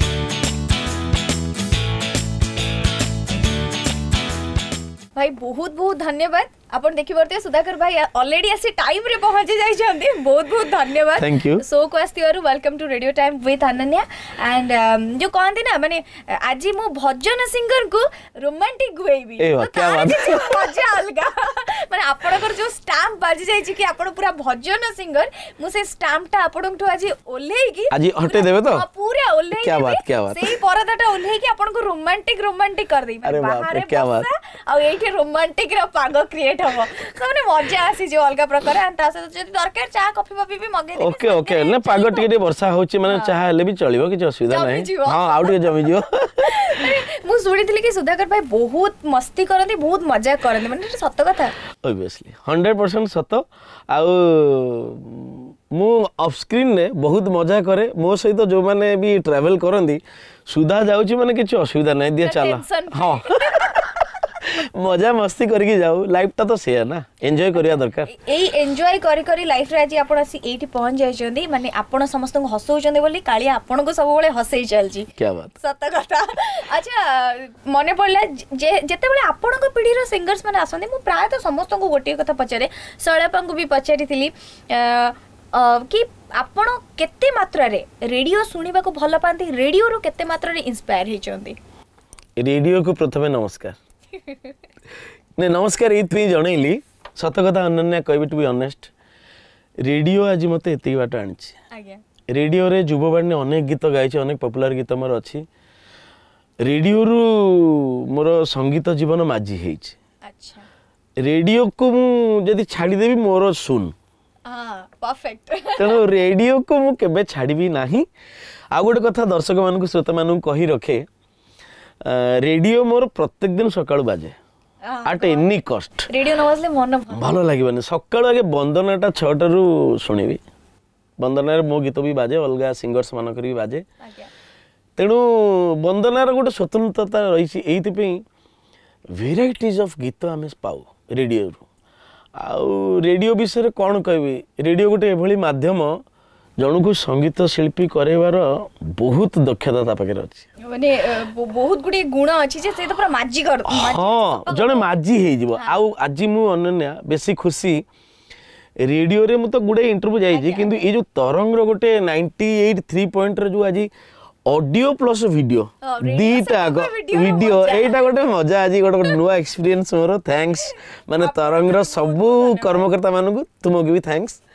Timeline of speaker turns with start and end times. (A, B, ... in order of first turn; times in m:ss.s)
0:05.2-0:42.3 A
0:11.2-0:11.6 B
0:19.4-0:20.8 B
0:27.9-0:28.8 B
0:29.6-0:30.5 B
0:33.2-0:34.3 B
0:41.0-0:46.9 B
0:43.1-0:43.3 A
0:44.5-0:51.5 A
0:51.8-1:08.1 B
1:02.2-1:03.8 A
1:08.0-1:15.1 A
1:15.2-1:15.5 B
1:15.6-1:31.6 A
1:32.4-1:33.8 B
1:34.2-1:34.5 A
1:35.4-1:38.9 B
1:39.8-1:41.5 B
1:41.7-1:42.0 A
1:42.3-1:45.4 B
1:46.6-1:49.9 B
1:50.2-1:50.6 A
1:51.2-1:53.9 B
1:54.4-1:56.0 A
1:55.8-1:58.1 B
1:58.7-2:01.0 B
2:02.0-2:04.4 B
2:04.8-2:05.5 A
2:05.0-2:06.1 B
2:06.1-2:07.3 A
2:07.1-2:10.4 B
2:11.2-2:13.8 B
2:14.0-2:14.3 A
2:15.0-2:18.2 B
2:19.1-2:21.6 B
2:22.4-2:26.0 B
2:26.6-2:30.4 B
2:30.6-2:34.9 A
2:33.7-2:37.8 B
2:38.8-2:43.9 B
2:40.3-2:40.9 A
2:44.5-2:54.4 B
2:45.8-2:48.1 A
2:50.6-2:52.9 A